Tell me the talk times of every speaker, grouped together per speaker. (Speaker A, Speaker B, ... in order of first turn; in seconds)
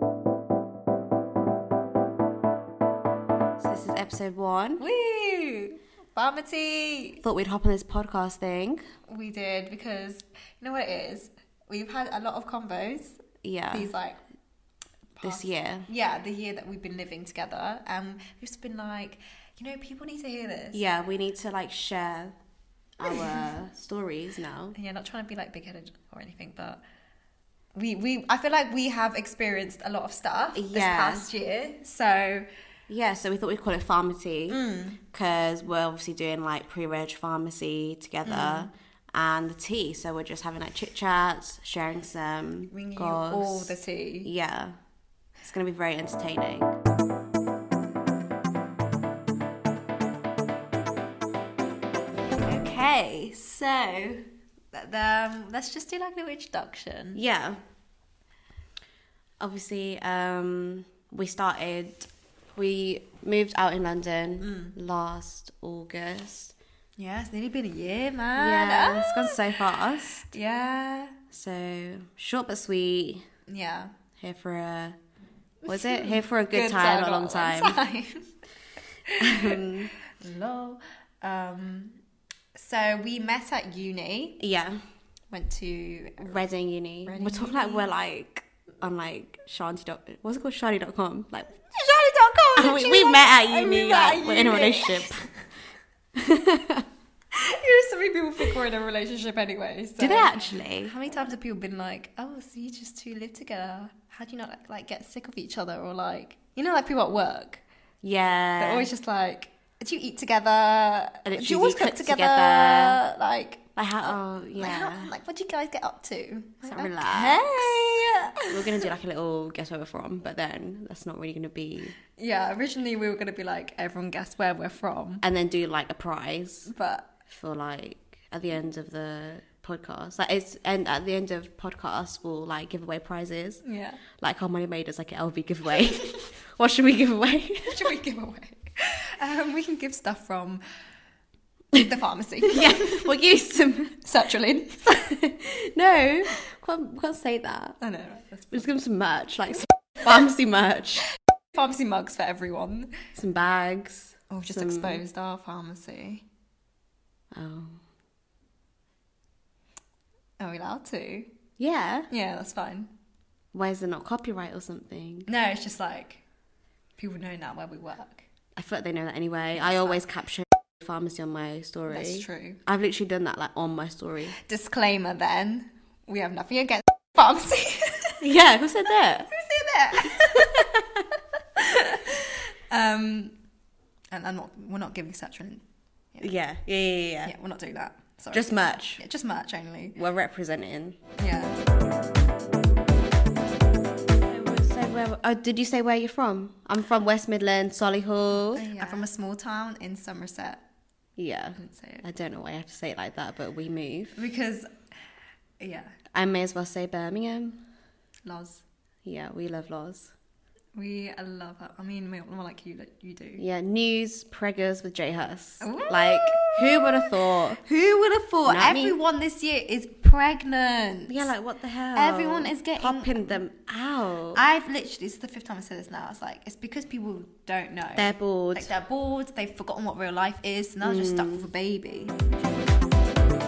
Speaker A: 3.6-4.8, 7.2-8.8, 13.4-13.9, 15.2-15.9, 20.7-22.3, 23.0-24.8, 30.5-31.3, 32.9-34.6, 35.1-44.8, 45.4-46.8, 57.1-57.6, 59.4-66.5, 68.4-70.3, 71.3-73.2, 74.2-75.0, 75.7-77.8, 79.2-79.9, 84.4-84.8, 86.2-91.5, 92.6-95.3, 96.2-96.8, 100.0-101.0, 108.0-108.9, 111.2-113.0, 113.8-115.1, 116.7-117.9, 118.5-122.0, 125.2-126.7, 127.3-133.6, 134.2-137.9, 142.5-144.0, 144.9-147.8, 148.5-151.1, 153.2-155.0, 157.3-157.8, 161.6-162.1, 163.5-165.3, 168.6-174.4, 178.2-179.3, 180.2-181.0, 186.2-187.3, 188.3-189.0, 190.0-191.0, 194.3-199.1, 201.2-204.2, 206.1-207.6, 209.1-210.1, 213.4-217.6, 218.5-219.0, 221.1-224.4, 227.9-228.7, 230.8-231.5
Speaker B: 4.8-7.2, 9.1-13.2, 13.7-14.2, 15.2-20.8, 23.0-23.4, 24.8-26.8, 27.8-32.5, 34.5-35.0, 38.2-38.7, 42.7-44.3, 52.4-57.2, 64.4-64.8, 67.0-69.6, 70.3-71.2, 73.5-73.9, 75.7-78.3, 79.1-82.0, 82.5-84.4, 85.3-86.4, 87.1-87.9, 91.6-95.2, 97.3-107.6, 108.6-113.6, 114.6-118.9, 122.2-125.2, 126.7-127.1, 133.6-134.0, 137.7-140.6, 141.7-143.0, 144.0-145.1, 147.8-148.7, 151.5-153.0, 154.3-156.2, 160.4-161.3, 162.1-162.9, 165.3-166.2, 167.0-168.2, 169.6-170.0, 171.9-172.6, 174.5-178.2, 179.3-180.5, 181.6-183.4, 184.1-185.6, 187.2-190.0, 191.2-191.6, 198.4-200.6, 201.6-202.0, 204.2-204.7, 205.6-205.9, 208.2-208.6, 210.8-213.4, 215.6-221.3, 221.9-223.4, 224.3-232.7